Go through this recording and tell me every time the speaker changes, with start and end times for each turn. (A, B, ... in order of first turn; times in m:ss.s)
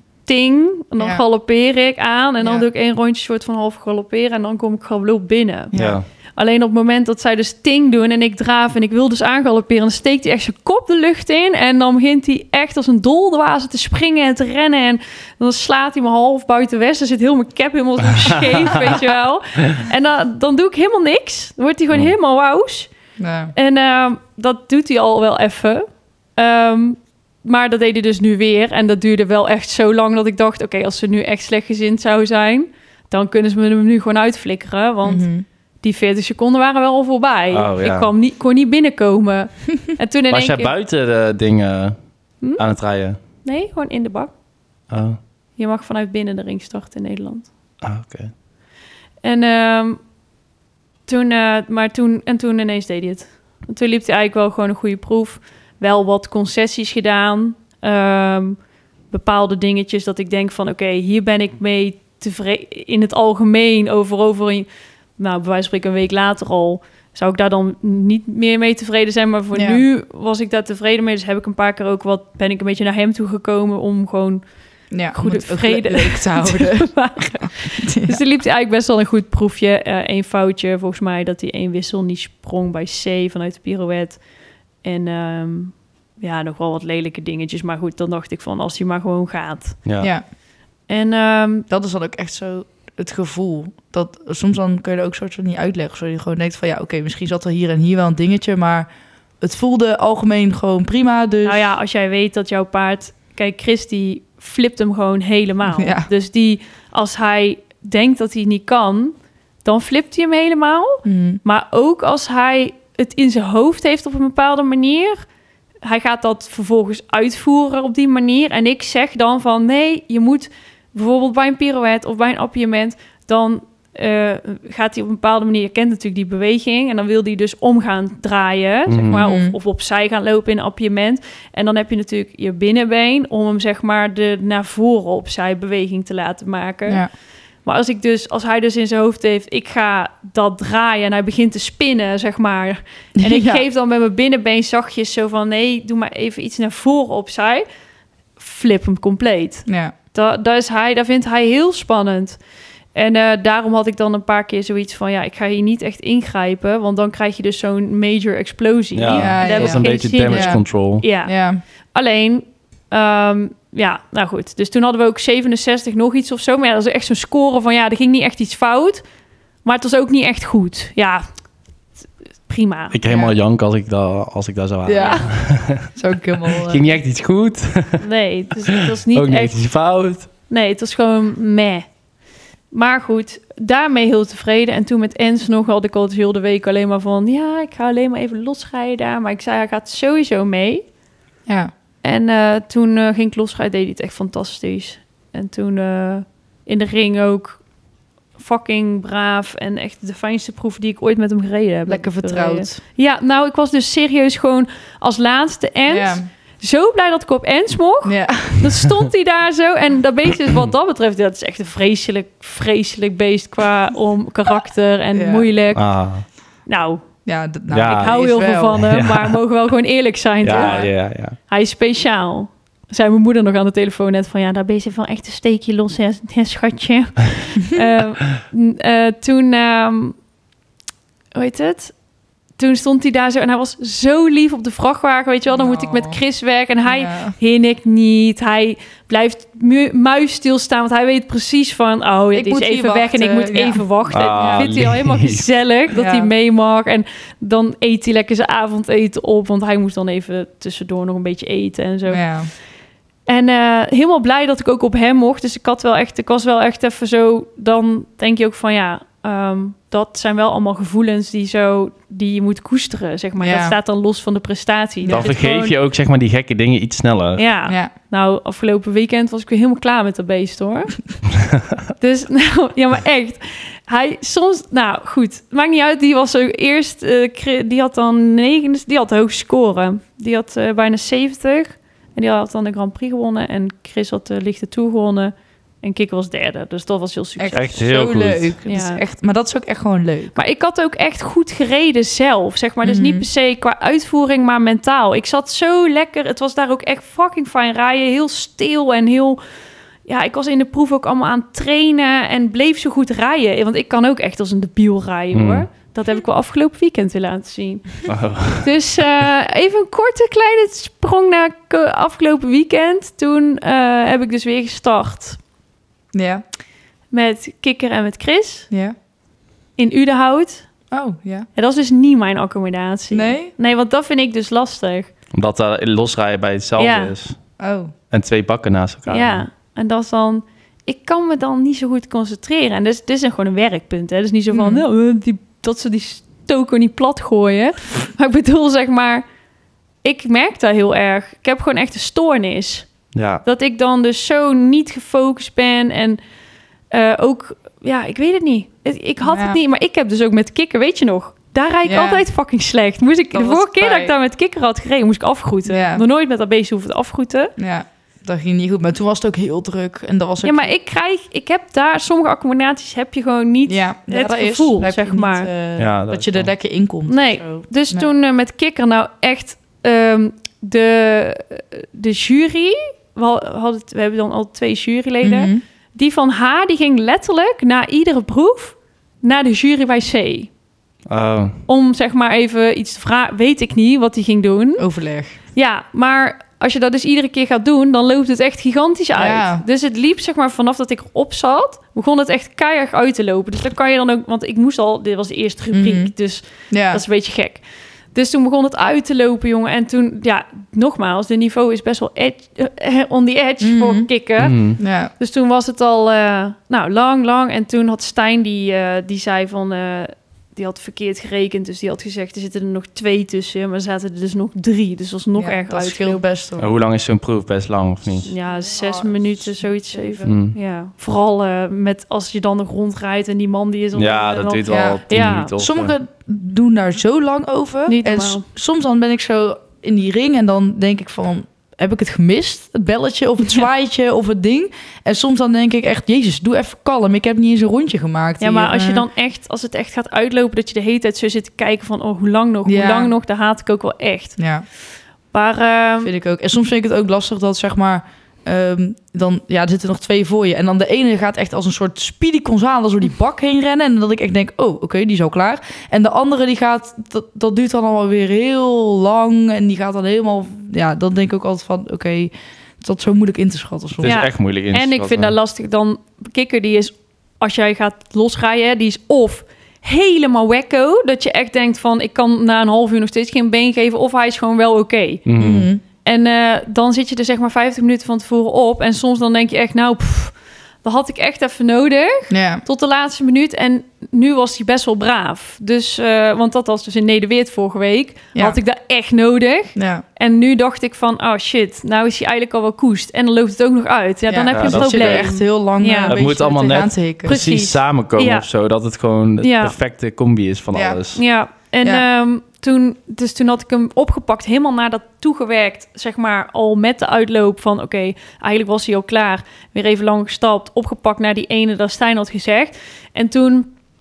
0:00.3-0:05.7 A
0:05.7-0:06.0 B
0:05.8-0:06.0 C
0:06.4-0:22.9 A
0:23.2-0:23.5 B
0:23.6-0:35.3 A
0:35.0-0:35.4 B
0:35.8-0:40.7 A
0:37.5-0:38.1 C
0:40.3-0:42.0 C
0:42.6-0:43.2 C
0:43.4-0:44.3 A
0:44.9-0:45.2 C
0:45.6-0:47.5 A
0:47.8-0:48.3 C
0:49.2-0:50.0 A
0:51.1-0:58.6 A
0:59.1-1:14.4 A
1:09.5-1:09.8 B
1:14.9-1:18.2 B
1:15.1-1:24.2 A
1:24.8-1:29.8 A
1:29.8-1:30.1 C
1:30.9-1:31.7 A
1:31.7-1:38.9 B
1:39.4-1:41.7 B
1:41.4-1:55.2 A
1:45.8-1:46.1 B
1:51.0-1:51.4 B
1:55.8-2:17.0 A
2:08.9-2:09.2 C
2:09.1-2:09.6 B
2:17.6-2:27.6 A
2:23.2-2:23.6 B
2:28.4-2:32.4 A
2:29.7-2:29.9 B
2:33.0-2:41.3 A
2:39.0-2:41.0 C
2:39.1-2:40.6 B
2:41.2-2:41.6 B
2:41.9-2:49.0 A
2:49.6-2:51.2 A
2:52.5-2:53.0 A
2:52.9-2:55.9 C
2:53.1-2:53.4 B
2:54.8-2:57.0 B
2:55.0-2:55.3 A
2:56.6-2:58.0 C
2:58.0-2:59.6 A
2:59.0-3:00.3 C
3:00.5-3:01.8 A
3:02.7-3:10.8 A
3:11.5-3:11.7 B
3:12.0-3:17.6 A
3:18.4-3:35.9 A
3:21.9-3:22.8 B
3:25.9-3:26.3 B
3:28.0-3:28.8 B
3:35.1-3:35.5 B
3:35.7-3:36.2 C
3:36.7-3:37.0 A
3:37.3-3:38.8 B
3:37.7-3:38.2 C
3:37.9-3:40.9 A
3:38.8-3:39.4 C
3:40.4-3:41.4 C
3:40.5-3:40.9 B
3:41.5-3:50.2 A
3:51.4-3:51.9 A
3:52.6-4:12.2 A
3:55.5-3:56.2 B
3:56.8-3:57.4 B
4:02.3-4:03.8 B
4:04.1-4:05.5 C
4:04.4-4:04.7 B
4:05.9-4:06.3 B
4:12.1-4:12.5 B
4:13.3-4:25.8 A
4:23.4-4:23.8 B
4:25.0-4:25.4 B
4:25.1-4:27.5 C
4:27.4-4:31.0 A
4:27.7-4:27.9 B
4:32.0-4:47.8 A
4:47.4-4:50.4 B
4:47.5-4:48.6 C
4:48.7-4:49.0 A
4:50.4-4:59.4 A
4:52.8-4:53.3 B
5:00.1-5:08.0 A
5:05.3-5:05.7 C
5:08.1-5:08.7 C
5:08.6-5:15.4 A
5:16.1-5:16.4 B
5:17.1-5:18.7 A
5:19.8-5:20.7 A
5:20.9-5:21.5 B
5:21.6-5:25.1 A
5:23.1-5:23.5 B
5:25.3-5:27.4 C
5:26.8-5:27.1 A
5:27.6-5:27.9 B
5:28.1-5:29.4 C
5:29.1-5:39.2 A
5:34.5-5:34.8 B
5:40.0-5:42.9 A
5:43.1-5:43.4 C
5:43.4-5:46.2 A
5:46.9-5:57.5 A
5:49.2-5:49.6 B
5:51.9-5:52.2 B
5:53.3-5:54.2 B
5:55.7-5:56.0 B
5:57.6-6:00.7 B
6:00.4-6:05.5 A
6:03.7-6:08.1 B
6:05.8-6:06.5 C
6:07.1-6:20.5 A
6:15.2-6:15.6 B
6:21.1-6:21.6 C
6:21.7-6:24.9 A
6:24.8-6:25.4 B
6:25.5-6:56.2 A
6:29.2-6:29.6 B
6:35.7-6:36.1 B
6:36.7-6:37.0 B
6:43.6-6:44.1 B
6:44.4-6:44.8 C
6:44.8-6:45.1 B
6:55.4-6:56.7 B
6:56.6-6:58.3 C
6:58.2-7:05.5 A
6:58.4-7:00.3 B
7:00.2-7:00.6 C
7:04.0-7:05.9 C
7:04.7-7:19.1 B
7:07.9-7:08.5 A
7:18.4-7:24.4 A
7:22.7-7:23.1 B
7:24.4-7:24.6 B
7:25.3-7:26.1 A
7:26.0-7:44.2 B
7:44.0-7:45.4 C
7:44.0-7:55.2 A
7:55.3-7:55.7 C
7:55.4-7:55.8 B
7:56.0-8:16.2 A
8:02.3-8:02.6 B
8:09.8-8:10.0 B
8:14.3-8:17.4 B
8:14.5-8:15.3 C
8:16.1-8:21.2 C
8:17.3-8:18.5 A
8:19.4-8:19.8 A
8:20.7-8:21.0 B
8:21.2-8:33.7 A